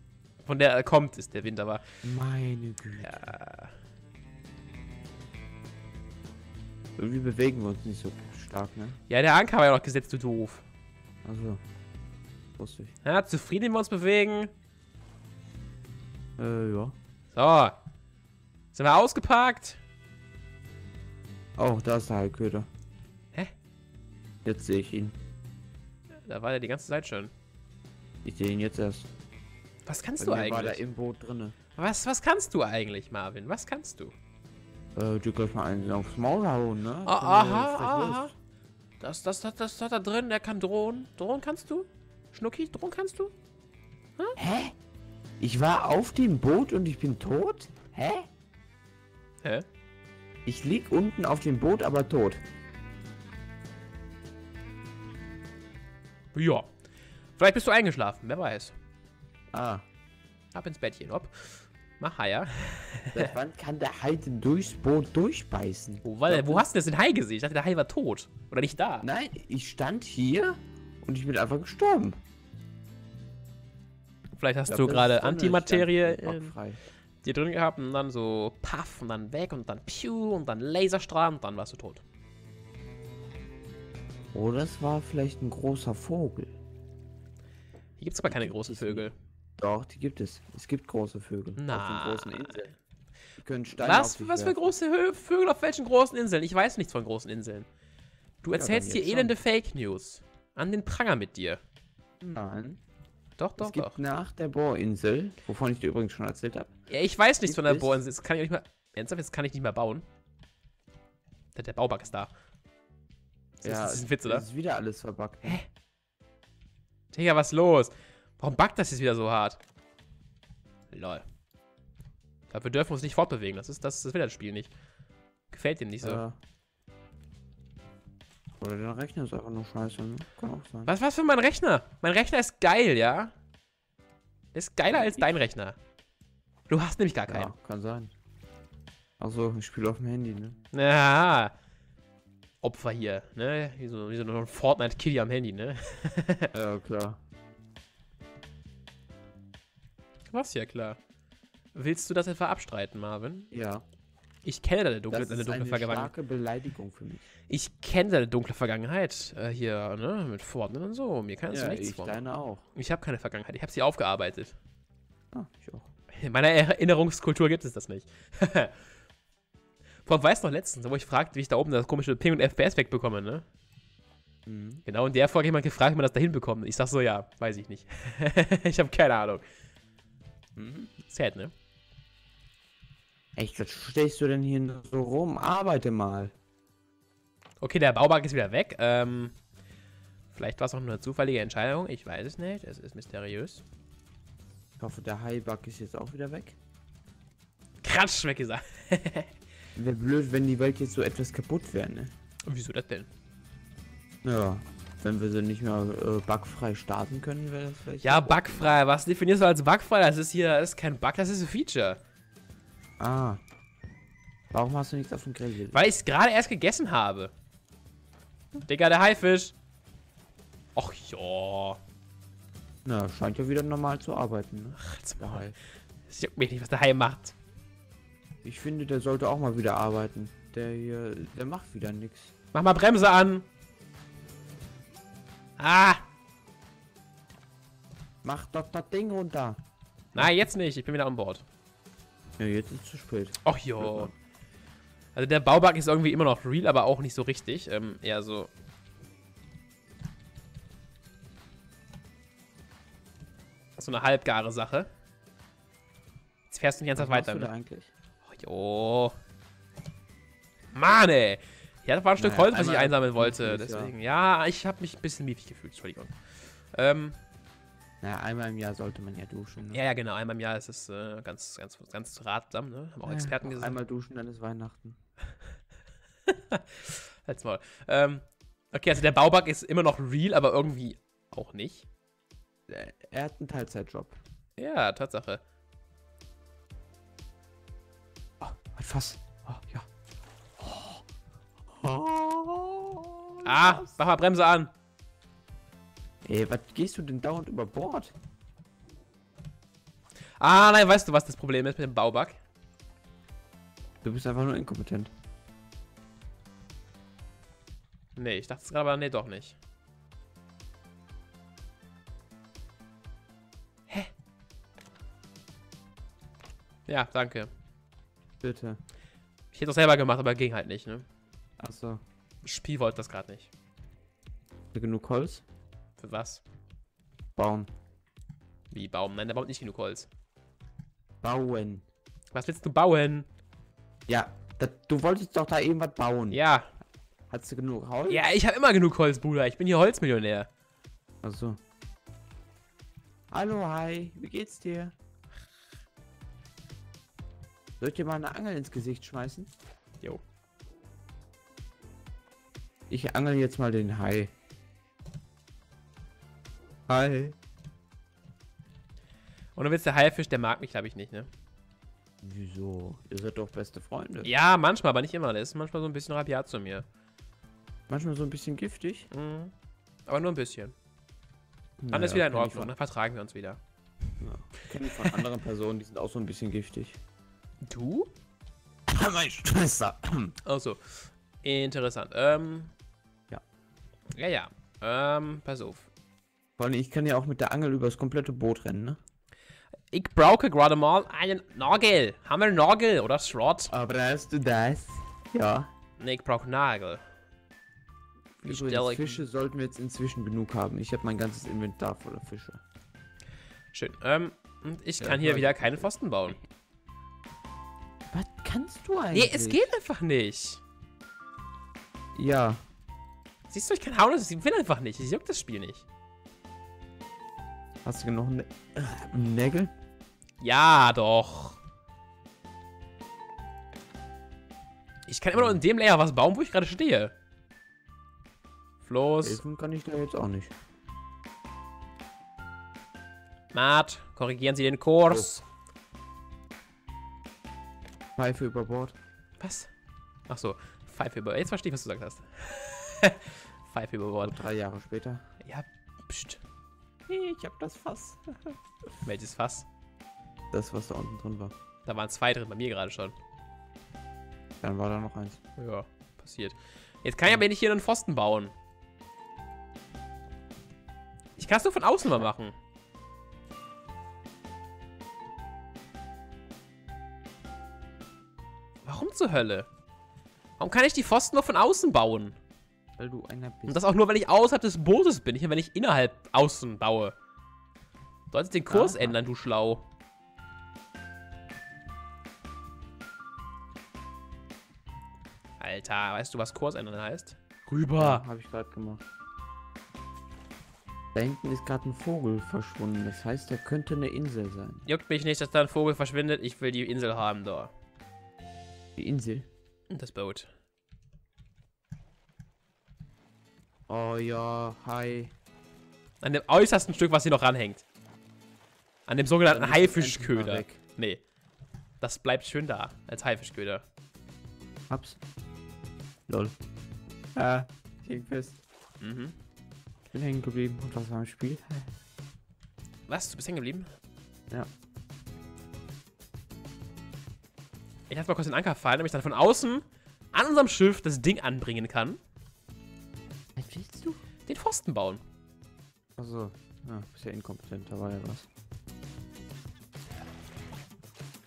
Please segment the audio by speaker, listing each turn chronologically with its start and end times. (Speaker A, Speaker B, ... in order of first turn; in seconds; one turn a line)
Speaker A: 0.5-1.8
Speaker B: 2.0-3.3
Speaker A: 3.0-3.7
Speaker B: 7.0-9.0
Speaker A: 9.1-10.6
Speaker B: 11.2-11.6
Speaker B: 12.6-12.9
Speaker A: 13.0-14.5
Speaker B: 16.4-16.9
Speaker A: 17.3-17.8
Speaker A: 18.7-19.8
Speaker B: 21.6-22.7
Speaker B: 24.4-25.1
Speaker A: 26.2-27.3
Speaker B: 28.2-29.1
Speaker A: 29.9-30.8
Speaker B: 30.2-31.6
Speaker A: 31.8-34.1
Speaker B: 34.9-38.3
Speaker A: 37.0-38.3
Speaker A: 39.0-43.3
Speaker B: 44.4-44.7
Speaker B: 45.4-48.2
Speaker B: 50.4-52.4
Speaker A: 56.3-56.7
Speaker A: 57.4-58.7
Speaker B: 59.5-59.8
Speaker A: 60.5-63.3
Speaker B: 63.1-66.7
Speaker A: 66.0-69.0
Speaker B: 69.0-72.2
Speaker A: 74.3-76.5
Speaker B: 74.7-76.8
Speaker A: 77.2-82.0
Speaker B: 84.3-86.5
Speaker A: 88.0-89.1
Speaker B: 88.2-89.1
Speaker B: 89.6-92.7
Speaker A: 91.6-92.7
Speaker B: 93.4-94.7
Speaker A: 93.8-97.7
Speaker A: 98.4-101.6
Speaker B: 98.5-99.3
Speaker B: 102.2-102.8
Speaker A: 103.4-104.0
Speaker B: 103.6-106.7
Speaker A: 106.9-110.0
Speaker B: 107.4-108.0
Speaker A: 111.5-112.3
Speaker A: 113.6-114.4
Speaker B: 113.6-115.6
Speaker A: 117.1-119.6
Speaker A: 120.9-121.2
Speaker A: 122.5-124.7
Speaker A: 125.5-126.2
Speaker B: 126.0-126.3
Speaker B: 128.6-130.9
Speaker A: 130.8-133.3
Speaker A: 134.5-135.8
Speaker B: 134.9-135.2
Speaker A: 136.7-137.5
Speaker B: 137.3-138.1
Speaker B: 139.2-140.6
Speaker A: 140.7-141.5
Speaker A: 142.6-146.5
Speaker B: 146.5-147.2
Speaker A: 150.3-151.0
Speaker A: 151.7-153.5
Speaker B: 153.5-153.8
Speaker A: 154.4-156.1
Speaker B: 155.1-157.3
Speaker A: 157.5-162.2
Speaker B: 161.5-162.6
Speaker A: 162.7-164.6
Speaker B: 165.3-165.9
Speaker A: 166.1-168.8
Speaker A: 170.0-173.4
Speaker B: 174.5-174.8
Speaker A: 174.8-179.4
Speaker B: 180.6-180.9
Speaker A: 181.1-181.5
Speaker B: 183.3-186.3
Speaker A: 187.6-189.3
Speaker A: 190.3-193.6
Speaker B: 194.8-196.6
Speaker A: 197.8-199.3
Speaker B: 199.8-202.1
Speaker A: 202.5-203.1
Speaker B: 204.2-208.7
Speaker A: 208.0-212.0
Speaker B: 213.0-213.4
Speaker B: 214.5-215.8
Speaker A: 215.7-217.3
Speaker A: 218.6-219.5
Speaker A: 220.7-221.8
Speaker B: 222.8-225.6
Speaker A: 224.8-225.5
Speaker A: 226.1-227.3
Speaker B: 228.4-232.3
Speaker A: 232.5-233.5
Speaker A: 235.6-236.0
Speaker B: 238.2-239.6
Speaker A: 240.1-241.4
Speaker B: 242.4-244.1
Speaker A: 243.4-244.1
Speaker A: 245.1-248.5
Speaker A: 253.8-254.9
Speaker A: 256.5-257.5
Speaker B: 256.9-257.9
Speaker A: 258.2-259.1
Speaker A: 260.7-266.1
Speaker B: 262.2-263.9
Speaker A: 266.7-267.1
Speaker B: 268.0-269.8
Speaker A: 269.6-273.8
Speaker B: 273.0-275.0
Speaker A: 276.3-281.9
Speaker B: 282.7-284.2
Speaker A: 284.6-285.4
Speaker B: 288.4-289.9
Speaker B: 290.6-291.0
Speaker B: 291.7-293.9
Speaker A: 293.4-294.7
Speaker B: 296.2-298.1
Speaker A: 300.4-302.4
Speaker B: 304.0-305.1
Speaker A: 308.1-309.6
Speaker A: 316.9-317.5
Speaker B: 318.4-318.8
Speaker A: 319.5-321.0
Speaker B: 321.6-322.0
Speaker A: 322.4-323.5
Speaker B: 324.7-325.4
Speaker A: 326.0-326.4
Speaker B: 327.4-327.7
Speaker A: 328.7-330.1
Speaker B: 331.2-331.8
Speaker A: 332.3-333.3
Speaker B: 334.1-336.4
Speaker A: 336.3-336.7
Speaker B: 337.3-338.3
Speaker A: 338.1-340.5
Speaker B: 341.2-341.6
Speaker B: 343.3-344.9
Speaker B: 347.8-349.5
Speaker B: 352.9-354.3
Speaker B: 356.9-357.4
Speaker A: 359.6-361.3
Speaker B: 362.2-364.3
Speaker A: 364.2-366.8
Speaker B: 367.9-369.1
Speaker A: 369.1-369.5
Speaker A: 370.1-370.7
Speaker B: 371.8-372.7
Speaker A: 371.9-373.6
Speaker B: 374.2-377.0
Speaker A: 377.6-378.1
Speaker B: 378.9-380.3
Speaker A: 380.4-382.7
Speaker A: 384.1-385.9
Speaker B: 386.6-389.0
Speaker A: 389.9-393.7
Speaker B: 393.7-395.7
Speaker A: 396.0-397.0
Speaker B: 398.4-402.6
Speaker A: 398.4-399.2
Speaker A: 403.7-406.4
Speaker B: 405.0-405.9
Speaker B: 408.1-409.7
Speaker A: 409.1-410.6
Speaker B: 412.1-412.6
Speaker A: 413.5-415.9
Speaker B: 417.8-419.7
Speaker A: 420.4-421.6
Speaker A: 425.1-427.1
Speaker A: 428.8-429.4
Speaker B: 429.2-430.5
Speaker A: 433.5-435.4
Speaker B: 435.1-435.4
Speaker B: 438.2-438.9
Speaker A: 439.4-439.7
Speaker A: 440.3-444.4
Speaker B: 444.2-445.2
Speaker A: 445.4-446.4
Speaker B: 447.1-448.6
Speaker A: 449.0-449.7
Speaker B: 450.5-451.5
Speaker A: 451.9-453.1
Speaker B: 454.6-455.4
Speaker A: 455.6-458.5
Speaker A: 461.4-462.5
Speaker B: 462.1-462.3
Speaker A: 468.8-469.7
Speaker A: 470.6-472.4
Speaker B: 473.0-473.8
Speaker A: 473.7-477.1
Speaker A: 478.3-479.9
Speaker B: 478.7-479.2
Speaker A: 485.6-488.2
Speaker B: 488.0-489.0
Speaker B: 491.1-494.9
Speaker A: 494.9-497.7
Speaker B: 499.0-499.5
Speaker A: 499.9-500.5
Speaker B: 503.9-505.3
Speaker A: 506.2-507.8
Speaker A: 509.1-511.2
Speaker B: 509.5-510.8
Speaker A: 512.0-513.8
Speaker B: 514.9-515.2
Speaker B: 516.3-516.5
Speaker B: 517.3-518.6
Speaker A: 519.0-519.3
Speaker B: 520.1-521.9
Speaker A: 523.1-523.9
Speaker A: 528.1-532.2
Speaker B: 533.5-534.2
Speaker A: 534.5-535.2
Speaker B: 536.2-538.5